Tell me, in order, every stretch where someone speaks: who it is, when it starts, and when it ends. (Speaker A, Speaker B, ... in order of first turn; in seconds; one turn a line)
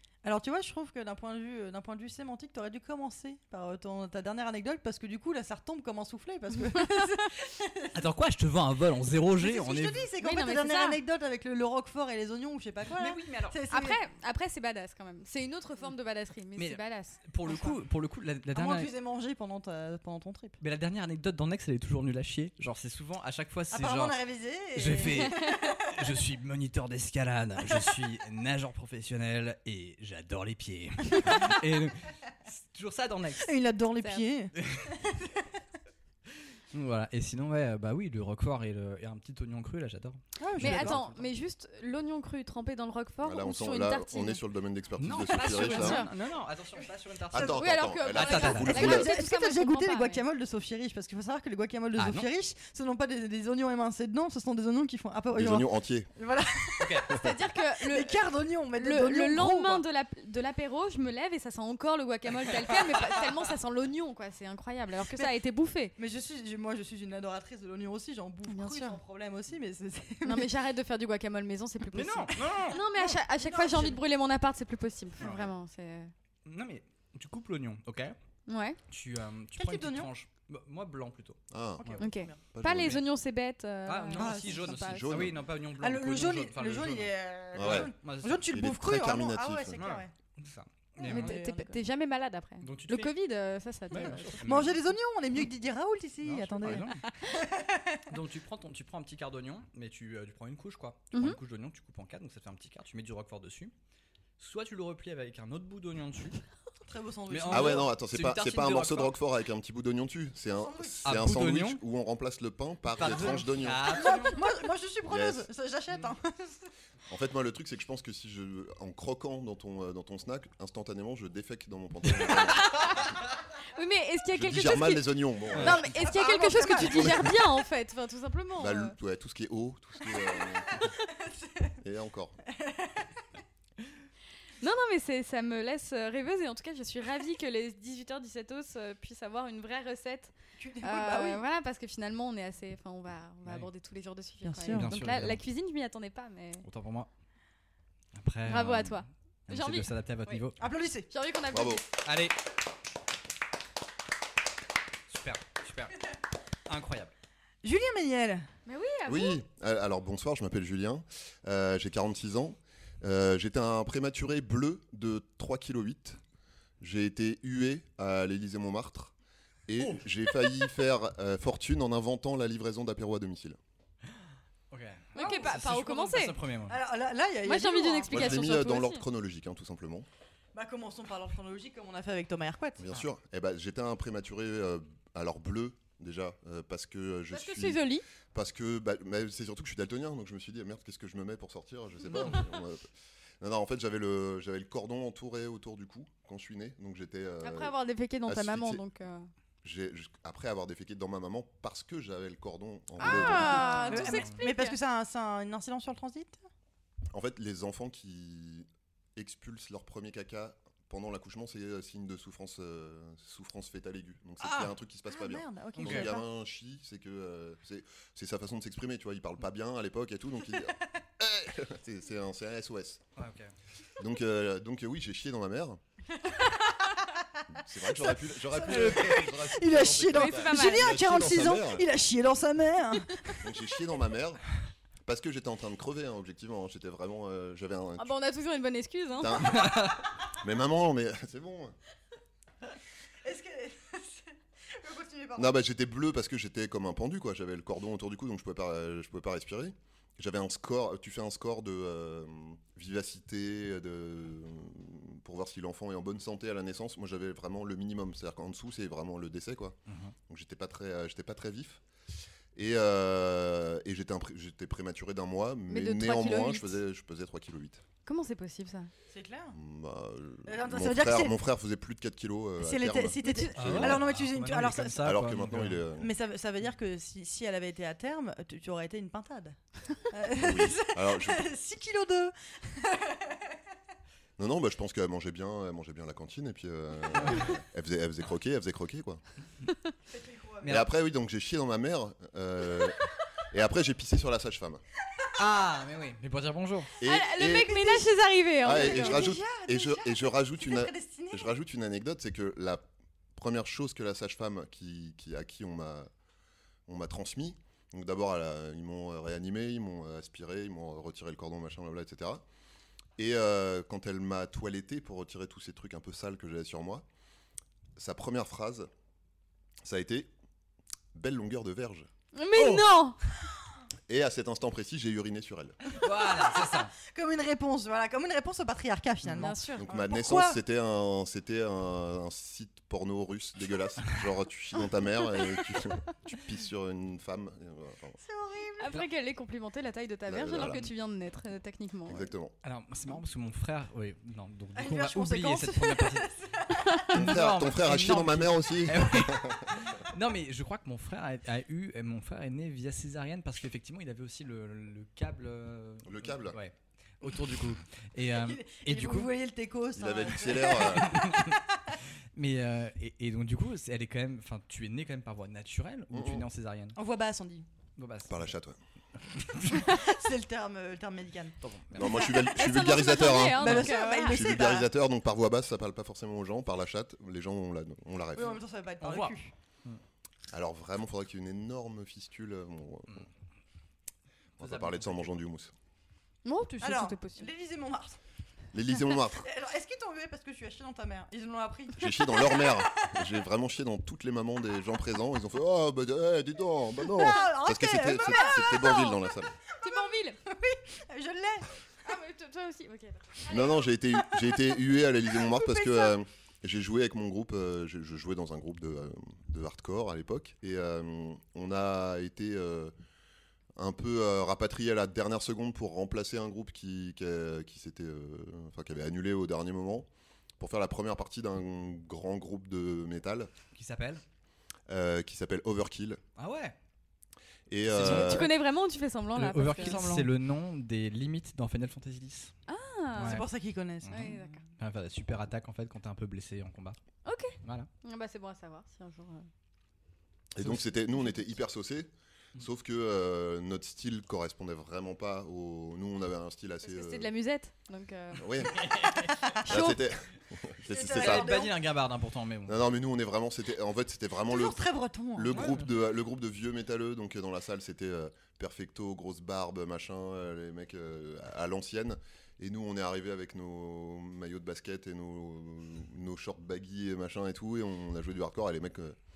Speaker A: 0.2-7.9
Speaker B: 7.9-10.1
Speaker A: 9.4-14.0
Speaker C: 10.2-11.0
Speaker B: 12.9-13.6
Speaker C: 13.7-17.7
Speaker B: 16.6-18.9
Speaker A: 18.5-20.6
Speaker B: 20.6-24.2
Speaker A: 23.7-26.1
Speaker B: 24.8-33.6
Speaker A: 31.2-31.6
Speaker A: 33.4-34.5
Speaker B: 34.6-34.9
Speaker B: 36.7-41.3
Speaker A: 40.4-41.0
Speaker C: 40.6-44.4
Speaker D: 43.2-46.0
Speaker B: 45.0-49.0
Speaker C: 45.4-46.1
Speaker D: 47.3-49.1
Speaker C: 47.4-50.2
Speaker A: 48.6-59.8
Speaker B: 52.0-52.3
Speaker D: 55.3-56.1
Speaker B: 56.8-57.1
Speaker C: 57.1-58.2
Speaker C: 58.8-66.0
Speaker A: 65.0-65.3
Speaker A: 66.0-70.5
Speaker C: 68.5-69.0
Speaker C: 70.2-76.1
Speaker B: 71.9-72.8
Speaker A: 72.5-74.0
Speaker B: 75.2-75.5
Speaker B: 76.5-78.2
Speaker C: 78.5-78.8
Speaker B: 78.9-82.0
Speaker A: 79.6-80.1
Speaker D: 81.5-82.0
Speaker A: 81.8-82.4
Speaker C: 82.0-85.2
Speaker D: 82.5-83.0
Speaker B: 82.7-83.0
Speaker B: 83.9-88.5
Speaker A: 84.2-84.8
Speaker D: 84.8-85.4
Speaker A: 85.8-90.1
Speaker D: 87.5-87.9
Speaker D: 88.5-89.8
Speaker B: 89.8-91.4
Speaker A: 91.0-91.8
Speaker C: 91.0-94.5
Speaker B: 92.6-93.1
Speaker B: 93.9-94.8
Speaker A: 94.0-98.0
Speaker B: 96.2-97.1
Speaker B: 98.1-103.7
Speaker C: 101.1-101.4
Speaker B: 104.4-106.4
Speaker A: 106.9-107.9
Speaker B: 107.3-109.2
Speaker D: 107.5-114.0
Speaker A: 110.6-111.0
Speaker B: 111.0-111.8
Speaker B: 113.0-114.4
Speaker A: 113.9-116.6
Speaker D: 115.1-115.5
Speaker D: 117.1-122.9
Speaker C: 122.6-123.0
Speaker C: 123.7-125.0
Speaker D: 124.3-125.9
Speaker C: 125.6-128.9
Speaker A: 125.6-127.4
Speaker D: 126.8-127.4
Speaker D: 128.6-130.8
Speaker A: 130.1-131.7
Speaker D: 131.8-132.4
Speaker A: 132.6-133.1
Speaker C: 134.6-146.7
Speaker A: 140.6-141.4
Speaker A: 144.4-145.0
Speaker B: 144.7-145.4
Speaker B: 146.7-147.1
Speaker B: 148.2-150.6
Speaker C: 148.5-150.4
Speaker A: 150.6-151.1
Speaker C: 151.1-151.8
Speaker D: 151.5-151.8
Speaker B: 152.0-152.4
Speaker B: 155.1-156.1
Speaker B: 156.7-157.1
Speaker A: 157.6-158.5
Speaker C: 158.7-159.4
Speaker D: 159.1-166.2
Speaker D: 166.8-169.1
Speaker D: 169.7-173.6
Speaker B: 174.7-176.8
Speaker C: 175.2-176.4
Speaker A: 175.2-175.5
Speaker A: 176.7-178.5
Speaker C: 177.4-179.0
Speaker D: 178.1-180.1
Speaker A: 180.5-182.8
Speaker D: 182.8-192.9
Speaker C: 187.3-188.0
Speaker D: 193.4-197.8
Speaker C: 197.4-199.3
Speaker D: 198.3-198.8
Speaker D: 199.6-203.8
Speaker C: 203.0-204.8
Speaker A: 203.0-206.4
Speaker B: 203.2-204.4
Speaker D: 207.1-223.0
Speaker B: 214.4-214.7
Speaker A: 215.1-216.2
Speaker B: 215.8-216.1
Speaker B: 223.2-223.5
Speaker D: 224.0-225.8
Speaker A: 226.2-227.0
Speaker D: 227.5-231.8
Speaker A: 227.9-233.4
Speaker B: 228.7-229.1
Speaker C: 230.1-230.9
Speaker D: 233.4-234.4
Speaker D: 235.1-238.2
Speaker C: 238.0-239.6
Speaker D: 239.2-241.7
Speaker B: 239.5-239.9
Speaker A: 243.2-245.6
Speaker D: 245.4-259.8
Speaker B: 259.9-260.1
Speaker D: 260.3-261.8
Speaker D: 262.6-267.8
Speaker C: 265.7-266.8
Speaker C: 268.1-268.9
Speaker A: 269.1-269.6
Speaker D: 269.5-274.1
Speaker A: 270.5-271.3
Speaker A: 272.6-275.1
Speaker C: 273.2-273.6
Speaker B: 273.6-275.9
Speaker D: 275.0-276.1
Speaker A: 276.0-279.6
Speaker A: 280.1-283.4
Speaker D: 280.4-281.4
Speaker D: 284.4-289.2
Speaker B: 287.1-287.6
Speaker A: 290.1-290.7
Speaker B: 290.6-290.9
Speaker D: 290.7-294.8
Speaker B: 295.4-296.9
Speaker D: 297.0-298.0
Speaker C: 297.1-299.4
Speaker A: 297.8-298.0
Speaker D: 298.6-302.8
Speaker A: 298.6-301.5
Speaker D: 303.4-306.1
Speaker D: 306.9-312.4
Speaker D: 313.2-317.1
Speaker D: 318.0-318.9
Speaker D: 319.8-320.3
Speaker D: 321.1-322.1
Speaker C: 322.3-323.2
Speaker B: 322.6-322.9
Speaker D: 324.1-325.8
Speaker B: 325.9-326.9
Speaker A: 326.3-330.6
Speaker C: 329.4-329.9
Speaker D: 329.8-338.2
Speaker A: 338.2-339.0
Speaker C: 338.8-342.3
Speaker D: 340.3-340.9
Speaker D: 342.1-342.5
Speaker B: 342.6-346.3
Speaker A: 344.8-347.0
Speaker B: 347.1-359.3
Speaker D: 347.1-349.7
Speaker D: 356.0-356.6
Speaker A: 358.3-361.6
Speaker D: 360.0-361.3
Speaker B: 360.4-361.6
Speaker B: 362.4-367.0
Speaker D: 366.1-366.5
Speaker A: 367.0-367.7
Speaker B: 368.0-368.5
Speaker D: 368.3-368.8
Speaker B: 369.3-369.9
Speaker A: 369.8-372.5
Speaker B: 371.6-372.3
Speaker D: 371.9-378.6
Speaker C: 372.3-374.5
Speaker A: 373.5-374.9
Speaker A: 378.4-379.5
Speaker B: 379.0-380.0
Speaker D: 380.5-383.3
Speaker D: 384.6-385.7
Speaker B: 384.6-385.3
Speaker C: 386.4-387.5
Speaker A: 386.8-388.2
Speaker D: 388.7-389.5
Speaker A: 389.4-393.3
Speaker D: 392.0-399.5
Speaker A: 397.1-399.1
Speaker C: 399.8-400.4
Speaker A: 400.5-401.7
Speaker C: 402.1-403.6
Speaker D: 403.5-412.9
Speaker A: 403.5-404.7
Speaker A: 405.4-406.2
Speaker D: 413.8-420.1
Speaker D: 420.6-423.5
Speaker B: 423.7-424.2
Speaker D: 424.9-426.2
Speaker B: 426.4-426.8
Speaker D: 427.7-428.5
Speaker B: 427.9-428.5
Speaker C: 428.0-430.3
Speaker B: 429.4-432.5
Speaker C: 432.7-433.5
Speaker B: 433.1-433.5
Speaker A: 433.2-434.4
Speaker B: 434.0-437.0
Speaker C: 434.1-434.6
Speaker C: 437.2-439.5
Speaker B: 437.6-437.9
Speaker D: 440.6-447.3
Speaker B: 440.6-441.4
Speaker C: 446.8-448.5
Speaker D: 448.4-448.8
Speaker B: 448.8-449.2
Speaker D: 449.7-451.6
Speaker C: 449.7-450.0
Speaker A: 450.9-451.8
Speaker B: 451.0-452.8
Speaker D: 452.7-469.2
Speaker A: 454.5-455.6
Speaker B: 455.5-455.9